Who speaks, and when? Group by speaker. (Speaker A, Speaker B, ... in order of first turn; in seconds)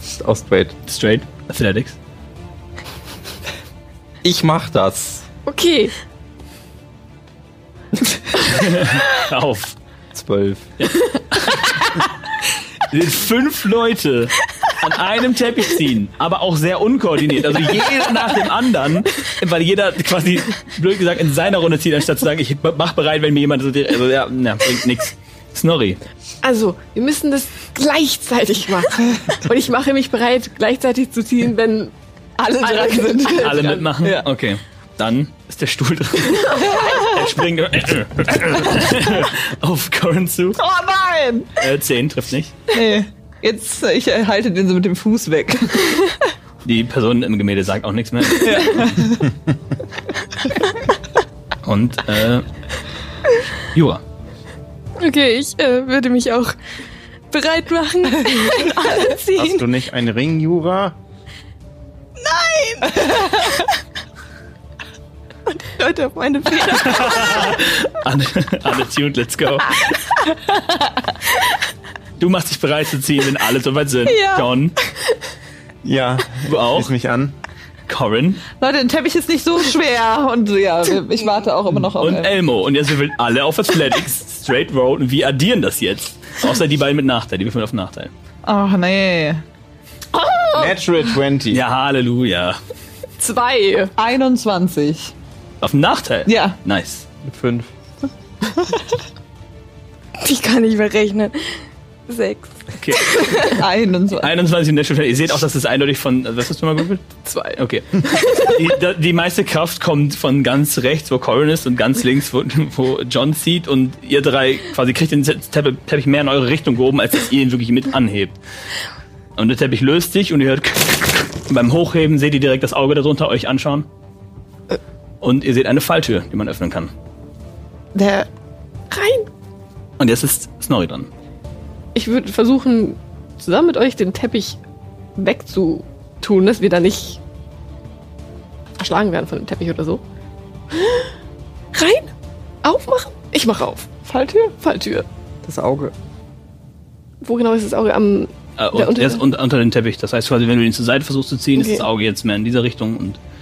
Speaker A: 0.1-0.8, 4.2-5.3, 8.1-8.5, 10.2-10.7, 97.2-97.7, 145.4-145.9
Speaker B: 0.9-2.0, 8.4-9.8, 10.8-12.1, 12.9-26.0, 33.4-40.6, 41.6-42.5, 46.6-49.0, 51.6-52.5, 53.7-54.0, 66.7-70.0, 72.2-74.8, 76.5-76.9, 77.9-78.4, 82.0-88.1, 91.5-92.6, 95.6-97.1, 102.8-103.6, 104.2-118.4, 119.4-123.9, 125.2-126.9, 130.0-131.1, 148.6-153.2
Speaker C: 5.5-6.0, 26.4-31.9, 32.6-33.9, 90.3-90.7, 93.2-93.9, 128.9-129.3, 131.9-134.6, 135.2-137.2, 138.8-140.0, 140.7-141.1, 141.7-143.9, 144.6-145.1, 147.2-149.2, 151.6-151.9
Speaker D: 32.4-34.2, 40.6-41.5, 42.7-45.9, 48.4-49.3, 78.5-82.3, 88.5-89.4, 94.0-95.1, 96.3-96.6, 103.5-104.3, 128.0-128.3, 144.1-144.6
Speaker E: 55.0-56.6, 57.3-59.6, 62.2-63.5, 65.5-67.7, 74.1-75.0, 100.2-103.6
Speaker F: 59.4-61.0, 75.8-77.4, 90.5-91.6